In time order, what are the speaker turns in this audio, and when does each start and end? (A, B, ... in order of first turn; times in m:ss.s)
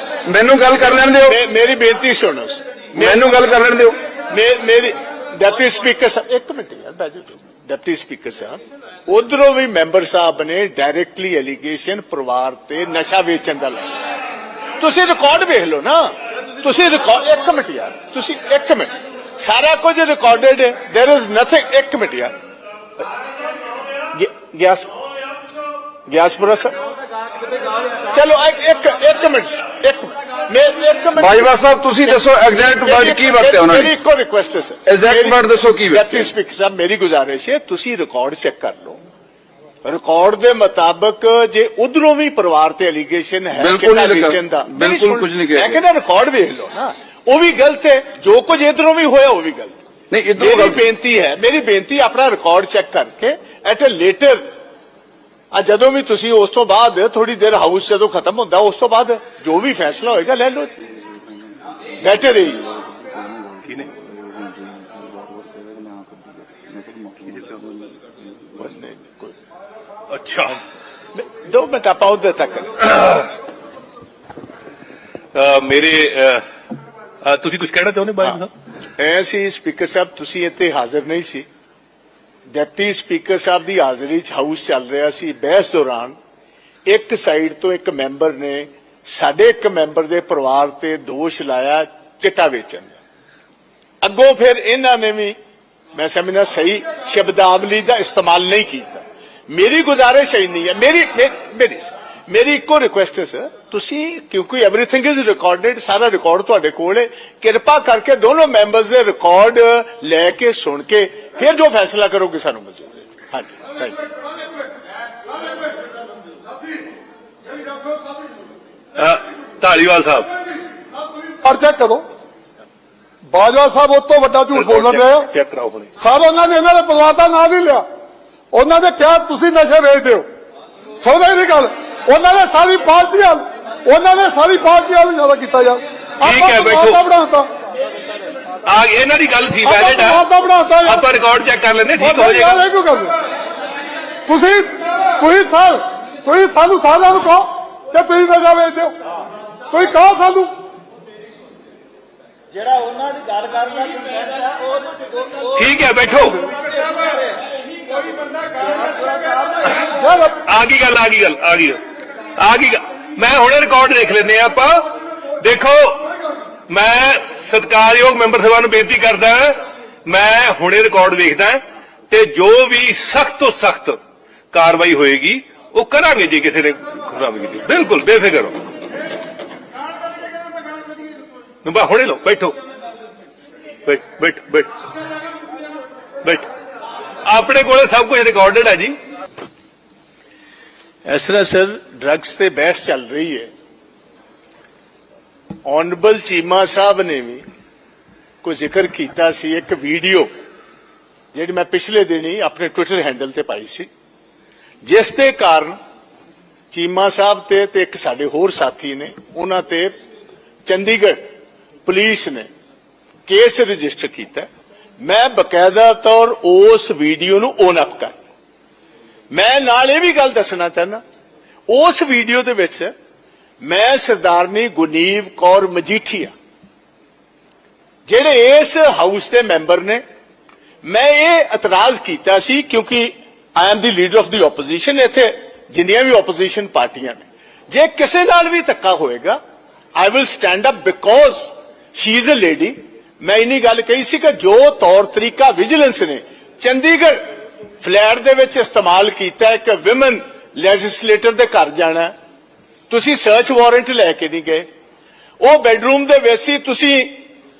0:00.3-0:01.4 A
0:01.3-0:03.2 B
0:03.0-0:04.0 A
0:04.3-0:13.8 B
0:14.8-0:16.1 B
0:16.6-0:22.3 B
0:24.1-0:24.9 B
0:26.1-0:26.8 B
0:28.1-0:31.5 B
0:31.2-0:33.9 A
0:32.0-0:39.0 B
0:34.8-0:36.3 A
0:39.8-0:49.8 B
0:43.6-0:45.8 A
0:50.1-0:50.8 A
0:50.4-0:54.4 B
0:55.5-1:00.8 B
1:02.0-1:02.6 B
1:03.6-1:03.9 C
1:07.3-1:07.6 C
1:08.6-1:09.3 B
1:10.1-1:10.6 C
1:11.2-1:13.3 B
1:15.3-1:16.4 C
1:17.2-1:18.5 C
1:19.0-1:21.4 B
1:22.5-1:26.1 B
1:26.9-1:33.0 B
1:34.0-1:35.4 B
1:35.9-1:54.0 B
1:59.0-2:00.4 C
2:01.4-2:02.0 D
2:03.3-2:05.3 D
2:04.5-2:05.9 C
2:06.0-2:07.8 D
2:08.5-2:10.2 D
2:11.0-2:17.5 D
2:16.2-2:17.0 C
2:18.6-2:20.3 C
2:19.7-2:21.0 D
2:20.8-2:22.6 C
2:22.0-2:23.1 D
2:24.3-2:28.9 D
2:29.7-2:30.5 D
2:32.5-2:35.5 E
2:35.5-2:36.4 C
2:38.5-2:39.8 E
2:40.0-2:40.3 D
2:40.4-2:41.8 C
2:42.4-2:46.1 C
2:46.7-2:54.0 C
2:54.5-2:58.6 C
3:01.6-3:02.6 C
3:03.8-3:04.8 C
3:06.2-3:06.5 C
3:07.2-3:09.0 C
3:11.0-3:13.5 B
3:15.6-3:17.4 B
3:18.4-3:20.3 B
3:21.3-3:23.9 B
3:24.8-3:25.8 B
3:26.7-3:29.9 B
3:30.6-3:31.2 B
3:31.8-3:32.5 B
3:33.3-3:34.5 B
3:35.0-3:38.2 B
3:39.3-3:41.0 B
3:41.7-3:42.9 B
3:43.6-3:46.3 B
3:48.1-3:50.0 B
3:50.8-3:59.4 B
4:00.0-4:07.2 B
4:07.8-4:12.1 B
4:12.9-4:14.7 B
4:15.4-4:17.2 B